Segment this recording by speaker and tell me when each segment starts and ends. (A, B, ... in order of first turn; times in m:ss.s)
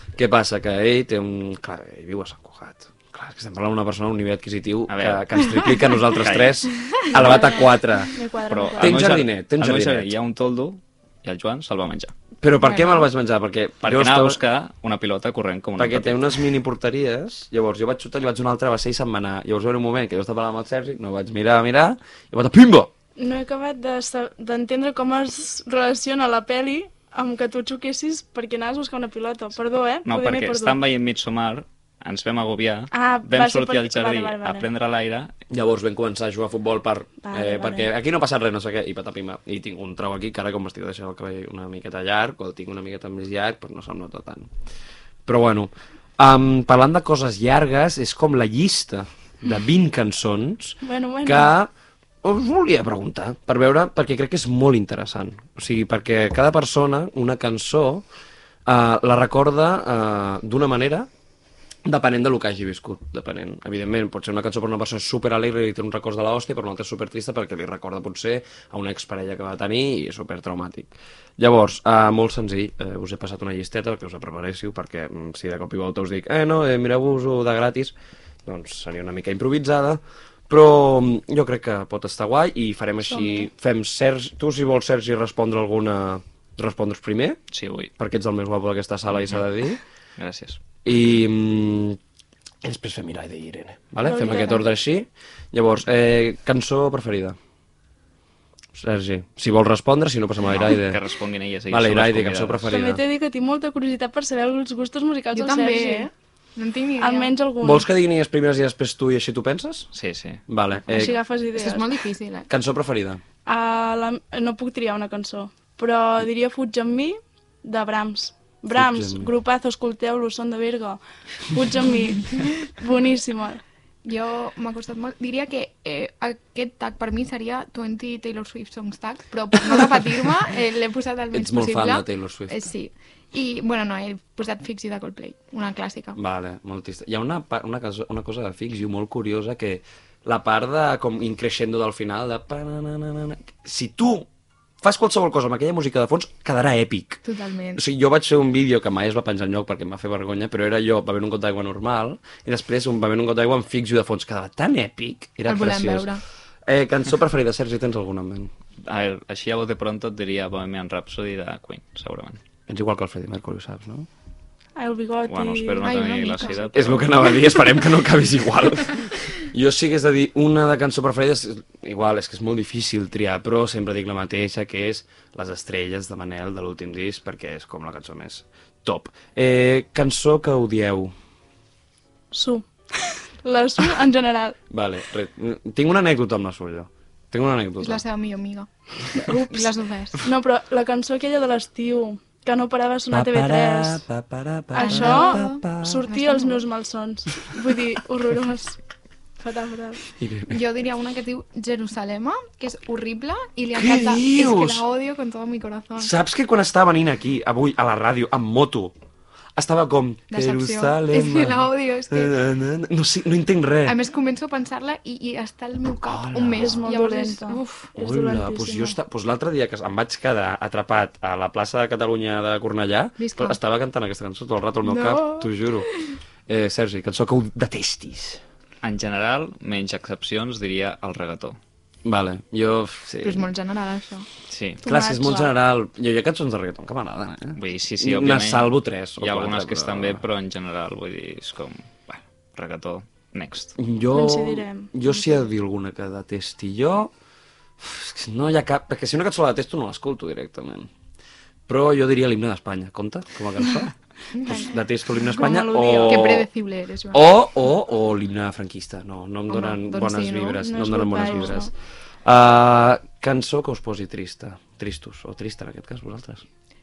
0:00.2-0:08.1 A
0:04.9-0:06.7 B
0:07.1-0:09.1 C
0:08.5-0:12.1 B
0:08.8-0:10.1 A
0:12.4-0:14.4 A
0:12.6-0:13.1 D
0:13.8-0:16.4 B
0:15.8-0:22.9 A
0:23.2-0:30.8 C
0:30.1-0:35.4 B
0:32.9-0:34.7 C
0:35.5-0:44.5 A
0:37.2-0:37.9 C
0:45.3-0:51.7 A
0:50.8-0:51.5 C
0:52.2-0:58.0 A
0:58.7-1:01.1 A
1:01.8-1:17.9 A
1:18.5-1:27.4 A
1:27.5-1:27.9 B
1:28.0-1:29.8 A
1:29.2-1:29.4 B
1:30.2-1:30.6 B
1:30.8-1:32.0 A
1:32.6-1:37.4 A
1:34.0-1:34.6 C
1:38.8-1:41.0 A
1:40.5-1:42.7 B
1:41.7-1:43.0 A
1:42.7-1:46.1 C
1:45.3-1:47.3 D
1:47.0-1:47.9 C
1:47.6-1:49.9 A
1:49.9-1:50.4 B
1:50.5-1:51.2 A
1:50.9-1:51.9 C
1:51.0-1:52.5 D
1:52.5-1:53.2 A
1:53.4-2:03.6 C
1:58.7-1:59.3 A
2:04.0-2:16.2 D
2:11.3-2:12.7 A
2:16.2-2:24.3 A
2:24.8-2:27.2 A
2:27.2-2:27.8 D
2:27.8-2:38.5 A
2:35.5-2:36.2 D
2:38.8-2:42.4 B
2:42.7-2:44.1 A
2:44.8-2:46.5 C
2:45.3-2:47.5 B
2:45.8-2:47.4 D
2:46.7-3:01.1 A
3:02.3-3:04.6 C
3:04.7-3:08.0 A
3:07.8-3:10.2 D
3:10.2-3:14.1 C
3:13.1-3:16.0 A
3:14.7-3:18.8 C
3:14.8-3:16.7 D
3:19.4-3:20.0 C
3:20.2-3:20.6 A
3:20.5-3:26.1 D
3:23.7-3:24.9 A
3:26.0-3:28.9 A
3:29.6-3:34.0 A
3:30.3-3:32.4 D
3:33.8-3:37.9 D
3:36.0-3:36.9 A
3:36.6-3:39.0 C
3:37.9-3:45.9 A
3:43.2-3:43.6 D
3:44.8-3:46.2 D
3:46.5-3:48.4 A
3:48.8-3:51.6 B
3:52.0-3:53.5 A
3:53.2-3:54.3 D
3:54.5-3:54.8 B
3:54.8-4:00.2 A
3:54.8-3:55.5 C
3:54.9-3:55.5 D
3:57.6-4:03.8 B
4:03.8-4:07.1 A
4:04.1-4:04.9 C
4:07.8-4:10.9 A
4:11.7-4:16.5 A
4:14.4-4:14.7 D
4:15.4-4:16.3 C
4:16.0-4:17.3 D
4:17.1-4:21.7 A
4:19.5-4:21.6 D
4:20.6-4:21.7 C
4:22.2-4:26.4 A